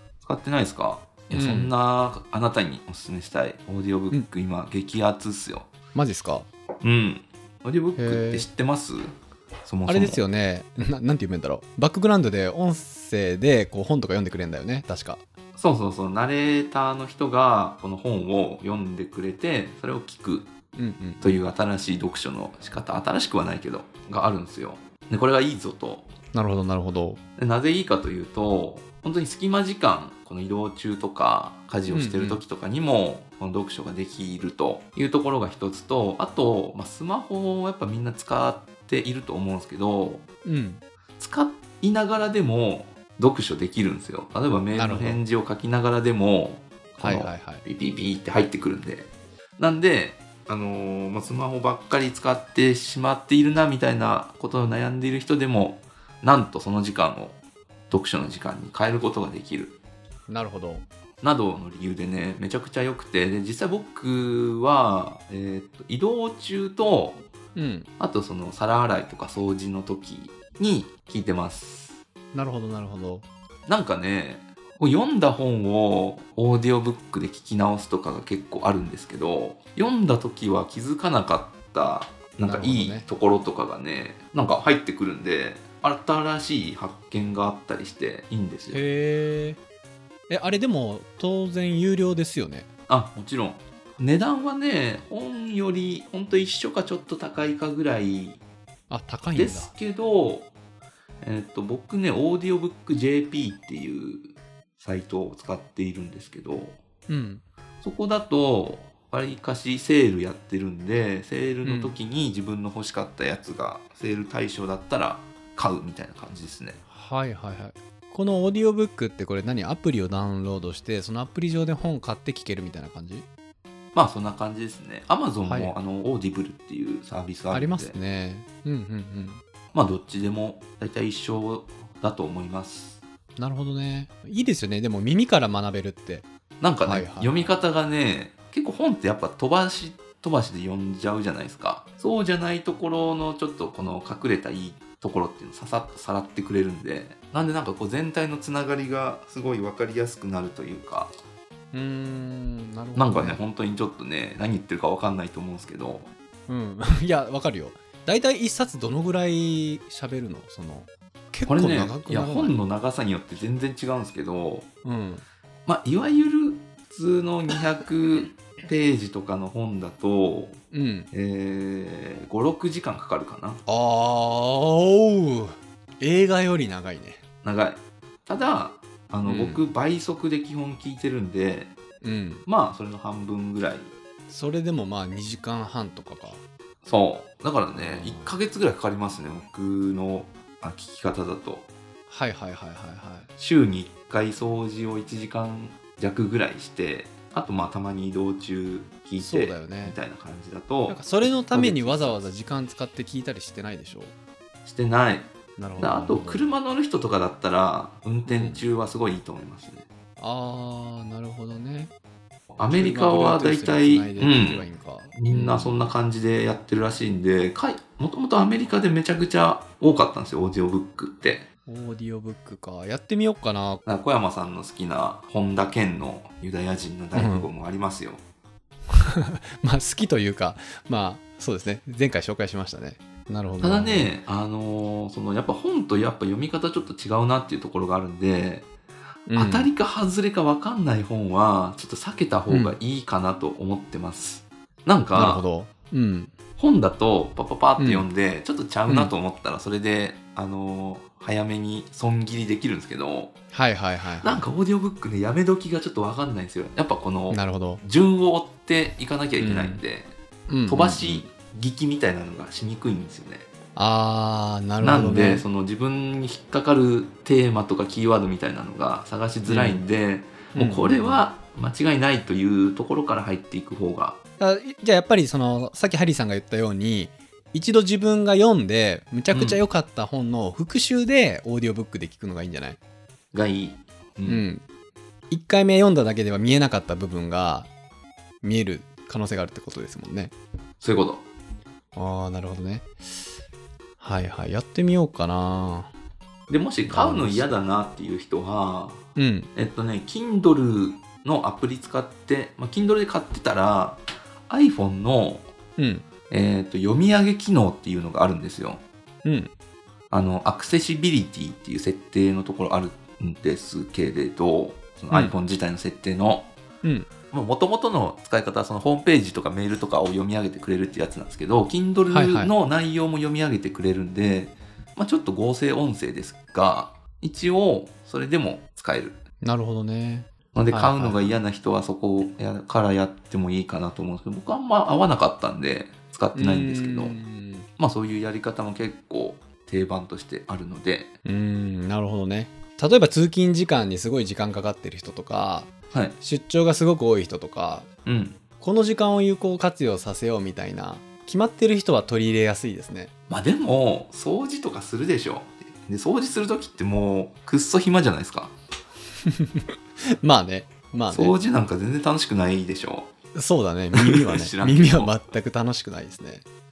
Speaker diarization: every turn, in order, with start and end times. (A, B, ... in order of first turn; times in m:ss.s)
0:00.2-0:05.7 A
0:01.3-0:01.7 B
0:05.9-0:06.5 B
0:06.8-0:09.1 A
0:08.0-0:08.5 B
0:09.6-0:10.2 A
0:09.9-0:15.2 B
0:15.6-0:20.5 A
0:20.8-0:21.4 B
0:21.2-0:26.1 A
0:26.3-0:27.2 B
0:27.4-0:40.2 A
0:31.9-0:32.4 B
0:40.4-0:40.8 B
0:41.2-0:57.4 A
0:44.7-0:45.2 B
0:47.0-0:47.6 B
0:57.9-0:59.7 A
1:00.3-1:00.8 B
1:01.2-1:07.2 A
1:07.6-1:07.9 B
1:08.0-1:12.0 A
1:12.3-1:13.2 B
1:13.7-1:28.8 A
1:22.4-1:23.1 B
1:28.7-1:29.6 B
1:30.3-1:32.7 B
1:32.9-1:38.4 A
1:38.9-1:39.7 B
1:39.3-1:40.5 A
1:41.2-1:44.3 A
1:44.8-1:46.8 A
1:47.1-1:47.4 B
1:47.8-1:56.8 A
1:51.6-1:51.9 B
1:56.9-2:03.2 B
2:03.9-2:08.0 A
2:05.4-2:05.7 B
2:07.5-2:09.4 B
2:09.7-2:13.0 A
2:13.4-2:16.3 B
2:16.6-2:31.1 A
2:16.8-2:17.5 B
2:31.7-2:33.4 B
2:33.0-2:36.1 A
2:36.5-2:42.6 B
2:41.5-2:44.7 A
2:44.8-2:45.2 B
2:45.7-2:50.6 A
2:50.7-2:51.1 B
2:51.1-2:53.6 A
2:53.7-2:57.2 B
2:57.4-3:01.7 A
2:59.2-2:59.6 B
3:02.0-3:02.4 B
3:02.4-3:03.9 A
3:04.3-3:06.4 B
3:06.8-3:11.7 A
3:07.7-3:08.4 B
3:12.1-3:13.3 B
3:13.4-3:22.3 A
3:19.2-3:20.0 B
3:20.9-3:24.1 B
3:24.6-3:29.8 A
3:25.6-3:26.5 B
3:28.3-3:28.6 B
3:30.2-3:31.9 B
3:32.6-3:41.5 A
3:32.7-3:35.8 B
3:41.7-3:43.8 B
3:43.8-3:48.2 A
3:47.1-3:47.5 B
3:48.9-3:54.1 B
3:53.6-3:58.7 A
3:59.3-3:59.7 B
3:59.3-4:05.4 A
4:02.5-4:02.8 B
4:05.1-4:06.3 B
4:06.6-4:13.3 A
4:07.8-4:08.1 B
4:08.9-4:09.1 B
4:13.5-4:14.5 B
4:14.2-4:20.1 A
4:17.3-4:17.8 B
4:19.4-4:19.8 B
4:20.5-4:21.3 B
4:20.7-4:23.5 A
4:23.8-4:25.4 B
4:24.8-4:34.2 A
4:29.4-4:29.8 B
4:30.5-4:31.2 B
4:34.4-4:42.8 B
4:39.3-4:39.6 A
4:43.3-4:44.4 A
4:44.2-4:44.6 B
4:45.3-4:47.7 B
4:48.4-4:50.3 B
4:50.8-4:51.2 A
4:51.9-4:52.9 B
4:54.0-4:55.9 B
4:56.5-4:59.0 A
4:56.8-4:57.5 B
4:59.2-4:59.5 B
4:59.5-5:05.5 A
5:05.8-5:06.0 B
5:06.3-5:08.8 A
5:09.2-5:09.5 B
5:10.1-5:16.5 A
5:16.8-5:17.1 B
5:17.3-5:29.2 A
5:22.1-5:22.5 B
5:29.4-5:31.4 B
5:30.5-5:37.2 A
5:36.4-5:37.7 B
5:37.8-5:41.1 A
5:41.2-5:47.9 B
5:48.0-5:48.4 A
5:48.6-5:53.1 B
5:53.3-5:58.5 A
5:59.3-5:59.6 B
6:00.2-6:01.4 B
6:01.1-6:03.1 A
6:03.3-6:06.4 B
6:04.0-6:05.1 A